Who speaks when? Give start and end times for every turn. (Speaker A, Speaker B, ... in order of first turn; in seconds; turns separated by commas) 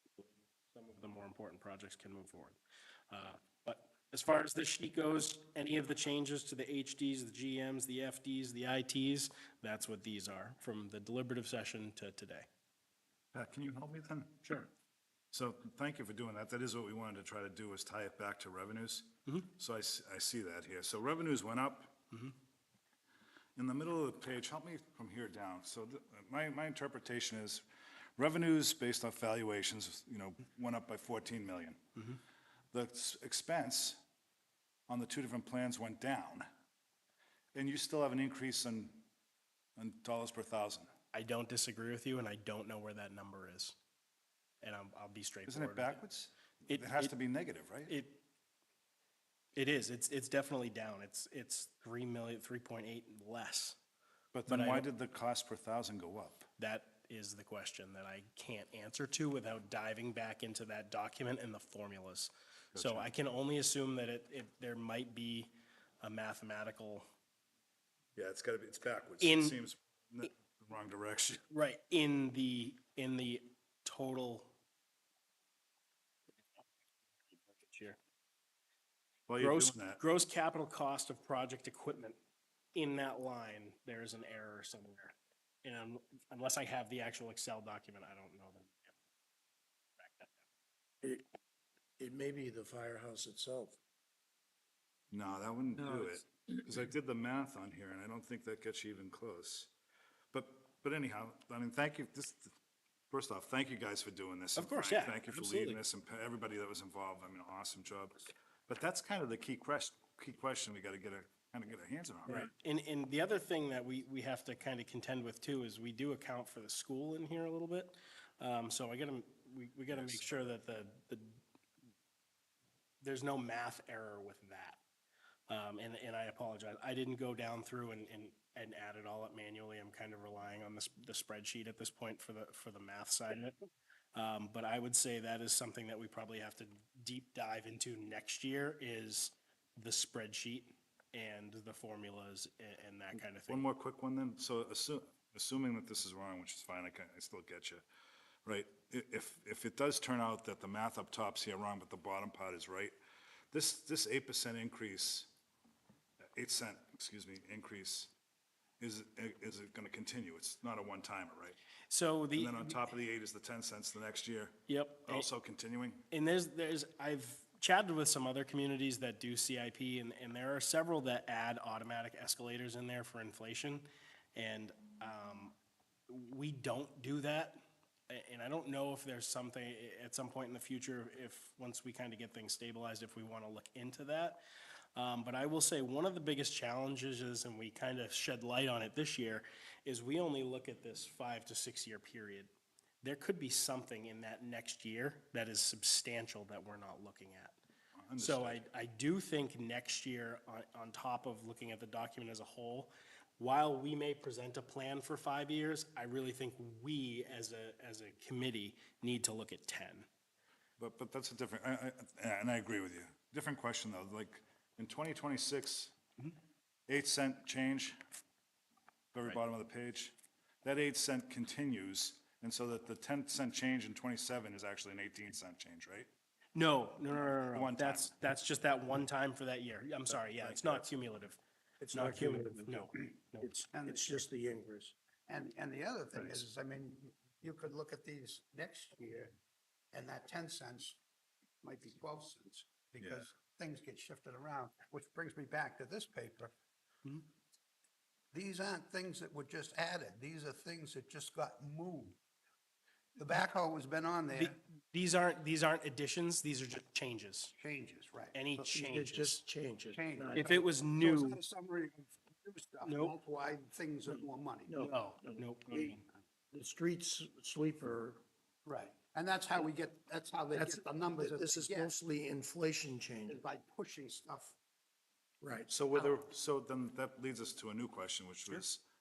Speaker A: 0.2-2.6, Speaker A: 3.1-12.5, Speaker B: 13.3-14.6, Speaker B: 15.3-22.0, Speaker B: 23.6-27.6, Speaker B: 28.2-31.8, Speaker B: 32.7-34.0, Speaker B: 34.9-36.5, Speaker B: 37.5-39.1, Speaker B: 39.8-40.9, Speaker A: 41.1-43.8, Speaker A: 44.6-46.0, Speaker B: 45.5-48.0, Speaker A: 46.7-47.1, Speaker A: 47.9-48.2, Speaker A: 49.5-53.8, Speaker B: 54.3-56.5, Speaker A: 54.5-54.9, Speaker A: 56.6-65.5, Speaker B: 62.7-63.1, Speaker A: 66.0-67.1, Speaker B: 68.2-71.4, Speaker A: 69.2-69.6, Speaker A: 71.5-74.5, Speaker A: 77.5-78.0, Speaker B: 79.3-80.0, Speaker A: 79.4-82.2, Speaker A: 82.8-88.9, Speaker A: 90.0-90.3, Speaker C: 92.0-93.8, Speaker B: 95.1-99.7, Speaker C: 95.9-96.1, Speaker B: 100.3-102.5, Speaker B: 103.1-112.5, Speaker A: 104.6-105.8, Speaker A: 112.3-121.4, Speaker B: 119.9-120.3, Speaker A: 123.0-124.8, Speaker A: 125.5-133.6, Speaker A: 134.1-143.6, Speaker B: 143.5-147.8, Speaker B: 148.5-152.9, Speaker B: 153.5-155.3, Speaker B: 156.3-158.1, Speaker B: 158.8-161.6, Speaker A: 161.9-162.8, Speaker B: 162.3-166.1, Speaker A: 164.7-165.3, Speaker A: 166.1-175.6, Speaker A: 176.1-184.4, Speaker A: 185.0-197.6, Speaker B: 198.0-198.6, Speaker A: 198.2-210.1, Speaker B: 210.8-216.0, Speaker B: 216.9-218.0, Speaker B: 219.1-226.1, Speaker A: 226.6-231.4, Speaker B: 227.3-228.1, Speaker C: 230.4-230.8, Speaker C: 231.8-234.9, Speaker A: 231.9-233.5, Speaker D: 233.7-234.3, Speaker D: 235.3-239.3, Speaker D: 239.9-241.0, Speaker D: 241.6-246.5, Speaker D: 248.3-252.2, Speaker D: 253.2-254.6, Speaker A: 254.3-257.6, Speaker D: 257.6-258.4, Speaker A: 258.3-259.4, Speaker C: 258.6-260.5, Speaker D: 259.9-265.0, Speaker A: 260.3-261.4, Speaker A: 262.9-263.1, Speaker C: 264.7-266.0, Speaker A: 265.1-266.0, Speaker C: 266.5-268.2, Speaker D: 268.6-271.9, Speaker C: 270.6-273.4, Speaker D: 273.3-274.6, Speaker C: 275.4-275.7, Speaker B: 275.7-278.8